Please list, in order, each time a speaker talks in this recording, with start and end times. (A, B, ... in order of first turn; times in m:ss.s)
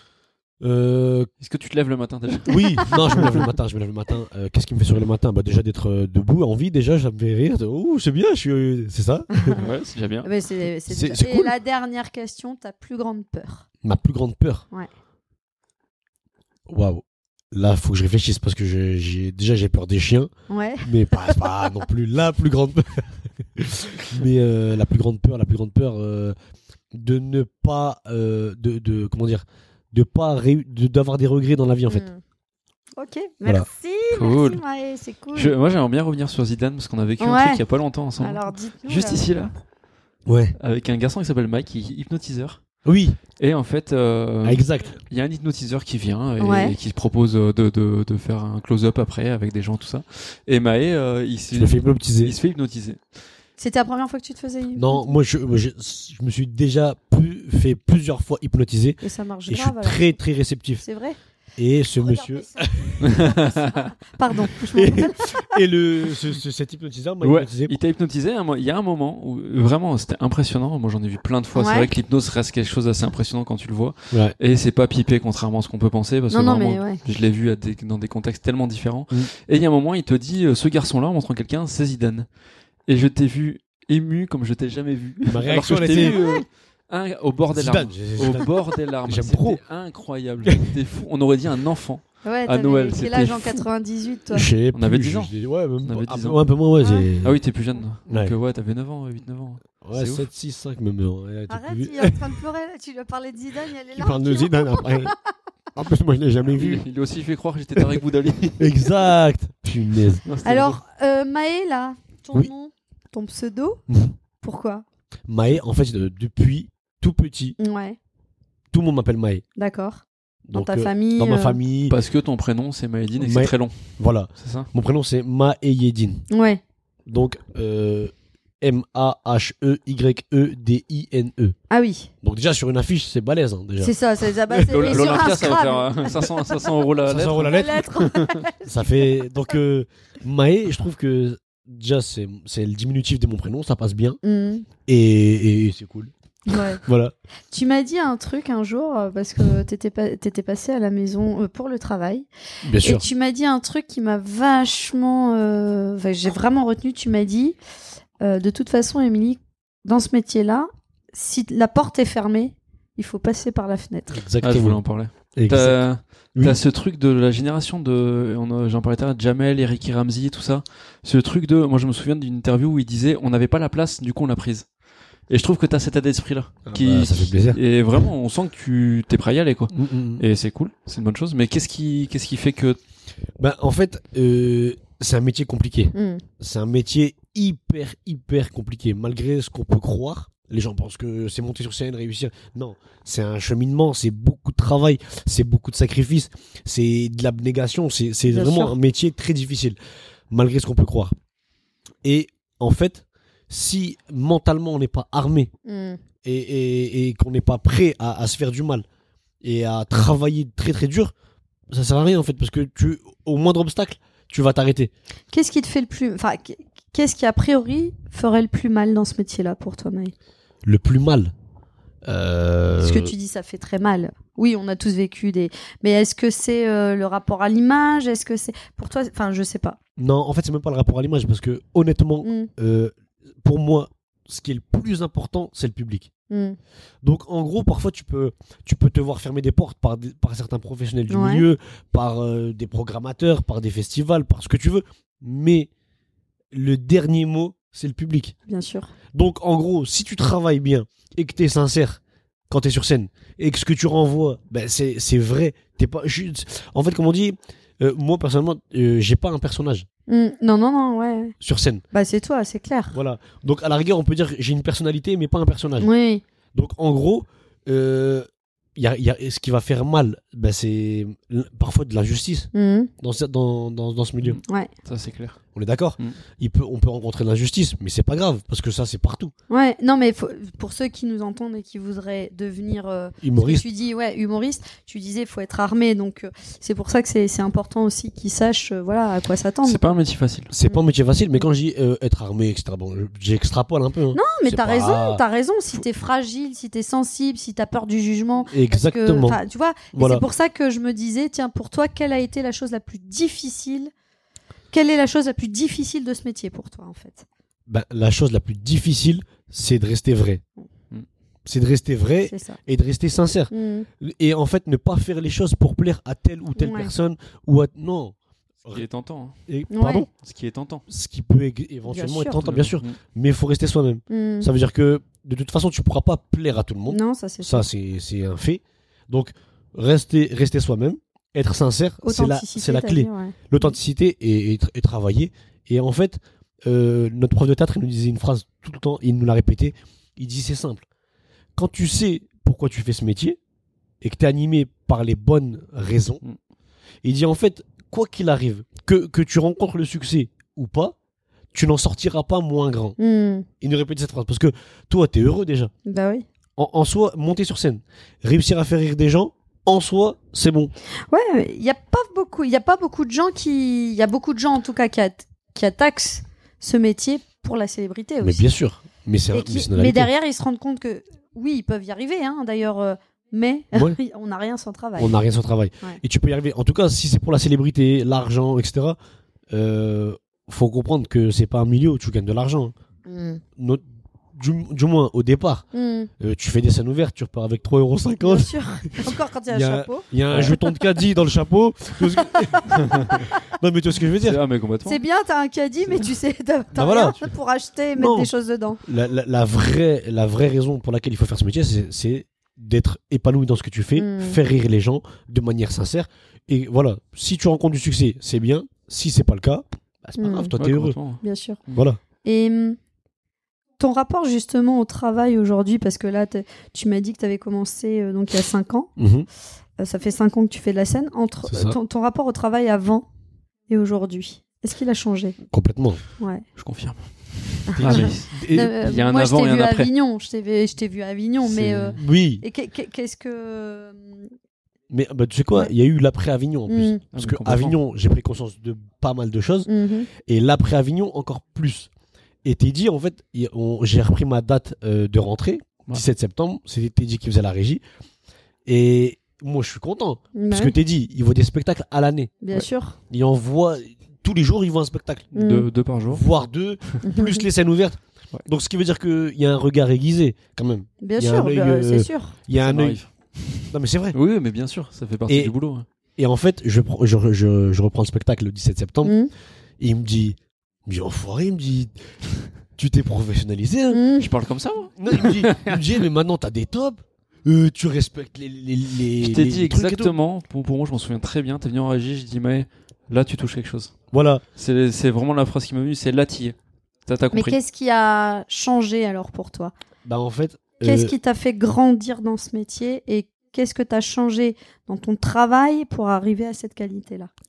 0:00.6-0:01.3 A
0:01.4-0:03.4 B
0:02.5-0:09.6 A
0:02.5-0:03.2 C
0:09.4-0:09.6 C
0:09.6-0:10.3 B
0:10.2-0:13.6 C
0:10.9-0:11.5 A
0:13.8-0:14.6 A
0:16.7-0:20.3 A
0:20.5-0:21.4 C
0:20.8-0:26.3 A
0:26.9-0:32.1 A
0:31.9-0:32.2 C
0:33.0-0:35.5 C
0:34.1-0:34.6 B
0:35.3-0:39.5 B
0:37.2-0:37.6 C
0:38.2-0:39.2 C
0:40.3-0:40.5 A
0:40.6-0:42.6 B
0:42.8-0:43.2 A
0:43.4-0:53.0 B
0:44.4-0:45.0 A
0:46.4-0:46.8 C
0:51.5-0:52.4 A
0:53.6-0:55.2 C
0:54.7-1:00.8 A
0:59.0-1:00.2 C
1:00.8-1:01.2 C
1:01.6-1:03.2 A
1:02.0-1:05.6 C
1:03.0-1:03.9 B
1:04.6-1:07.7 A
1:07.2-1:22.3 B
1:11.5-1:11.9 C
1:16.3-1:17.0 C
1:22.9-1:33.6 B
1:25.3-1:26.2 A
1:25.9-1:26.4 C
1:27.5-1:28.5 A
1:29.0-1:29.6 A
1:32.2-1:34.5 C
1:34.3-1:37.4 A
1:34.7-1:36.4 B
1:36.8-1:37.1 C
1:37.2-1:40.2 B
1:38.1-1:38.3 A
1:39.8-1:42.2 A
1:41.5-1:45.2 C
1:43.9-1:45.1 A
1:45.7-1:46.8 A
1:46.5-1:48.9 B
1:48.6-1:50.2 A
1:50.2-1:50.8 B
1:50.4-1:53.8 C
1:53.9-1:54.1 A
1:54.4-1:54.8 C
1:55.3-1:57.6 A
1:57.6-1:58.0 C
1:58.7-1:59.4 A
1:59.6-2:01.6 C
2:00.5-2:02.0 A
2:01.9-2:03.7 B
2:03.2-2:06.2 A
2:04.4-2:04.7 B
2:06.3-2:06.6 C
2:07.0-2:11.6 A
2:11.7-2:12.1 C
2:12.2-2:15.4 A
2:13.8-2:16.6 C
2:14.6-2:18.4 B
2:17.0-2:17.9 A
2:17.4-2:19.3 C
2:18.6-2:24.2 A
2:24.2-2:24.7 C
2:24.8-2:26.1 A
2:26.5-2:26.8 C
2:26.8-2:27.1 A
2:27.5-2:32.3 C
2:32.6-2:33.0 A
2:32.8-2:37.6 C
2:38.2-2:44.2 C
2:44.1-2:44.8 A
2:44.4-2:54.7 B
2:45.3-2:45.8 A
2:55.3-3:02.8 B
2:56.6-2:57.6 A
2:59.7-3:00.2 A
3:03.4-3:19.8 A
3:05.9-3:06.2 C
3:18.3-3:18.7 C
3:20.3-3:21.1 A
3:22.0-3:25.5 A
3:25.6-3:26.0 C
3:26.2-3:28.8 A
3:29.4-3:31.1 A
3:31.7-3:34.9 A
3:35.3-3:40.1 C
3:40.6-3:41.3 A
3:42.0-3:43.1 A
3:42.8-3:49.8 C
3:50.0-3:56.1 A
3:52.2-3:52.5 C
3:56.3-3:56.6 C
3:57.0-4:05.7 A
4:01.1-4:01.5 C
4:06.5-4:08.3 A
4:08.5-4:08.9 C
4:09.1-4:19.8 A
4:20.1-4:21.3 C
4:21.4-4:21.8 A
4:21.9-4:22.9 C
4:22.9-4:25.9 A
4:25.8-4:26.2 C
4:26.5-4:32.5 A
4:32.5-4:32.9 C
4:33.0-4:34.4 A
4:34.2-4:35.4 B
4:35.5-4:39.3 A
4:39.5-4:49.8 C
4:43.2-4:43.6 A
4:49.6-4:50.5 B
4:50.5-4:55.2 A
4:54.1-5:03.9 C
4:58.5-4:59.4 A
4:59.9-5:00.2 A
5:04.7-5:07.2 C
5:07.7-5:10.4 A
5:11.4-5:18.8 A
5:12.3-5:12.6 C
5:13.5-5:13.9 C
5:16.6-5:16.9 C
5:18.7-5:19.4 B
5:19.5-5:20.1 A
5:19.7-5:20.0 C
5:20.1-5:20.8 B
5:20.9-5:40.8 A
5:21.8-5:22.4 C
5:22.4-5:23.0 B
5:24.1-5:24.5 C
5:26.9-5:27.6 C
5:32.0-5:33.7 C
5:41.6-5:43.4 A
5:44.0-5:46.2 A
5:47.0-5:50.9 A
5:51.5-5:53.0 A
5:53.0-5:53.5 C
5:53.6-5:55.7 A
5:55.8-5:56.2 C
5:56.6-6:00.7 A
6:01.1-6:08.4 C
6:08.2-6:10.1 A
6:09.3-6:15.2 C
6:15.0-6:19.0 A
6:19.5-6:22.7 A
6:23.0-6:23.4 C
6:23.6-6:23.8 A
6:24.3-6:25.6 A
6:25.7-6:26.1 C
6:26.2-6:34.4 A
6:28.2-6:30.9 C
6:30.3-6:30.6 B
6:32.2-6:33.3 C
6:34.2-6:35.0 B
6:34.8-6:38.8 C
6:36.7-6:37.3 A
6:38.0-6:38.3 A
6:38.8-6:51.0 A
6:43.9-6:44.4 C
6:50.2-6:50.5 C
6:50.6-6:51.8 B
6:51.2-6:51.6 C
6:51.7-6:52.0 A
6:52.2-6:52.8 C
6:53.8-6:58.9 C
6:59.0-6:59.3 A
6:59.8-7:03.0 C
7:01.5-7:01.8 A
7:03.7-7:05.4 C
7:05.5-7:06.0 A
7:06.2-7:06.4 C
7:06.6-7:09.9 B
7:07.7-7:14.3 C
7:07.8-7:08.7 A
7:11.5-7:12.0 B
7:11.9-7:12.4 A
7:14.9-7:21.9 A
7:16.7-7:17.0 C
7:17.1-7:17.8 B
7:19.7-7:20.1 C
7:22.4-7:27.8 A
7:28.6-7:32.4 A
7:30.3-7:30.8 C
7:32.4-7:33.0 C
7:33.1-7:35.3 A
7:35.3-7:36.2 B
7:35.3-7:35.7 C
7:36.1-7:43.0 A
7:37.0-7:37.4 C
7:41.0-7:42.4 C
7:42.6-7:45.8 B
7:43.7-7:44.2 A
7:45.3-7:45.5 A
7:46.2-7:49.2 A
7:49.0-7:49.3 C
7:49.8-7:51.9 A
7:52.8-7:54.0 A
7:53.9-7:54.3 C
7:54.2-7:55.9 B
7:55.0-8:00.1 A
7:59.2-8:03.9 B
8:04.1-8:04.4 A
8:04.6-8:07.6 B
8:07.3-8:09.7 C
8:10.0-8:11.1 A
8:10.8-8:17.3 C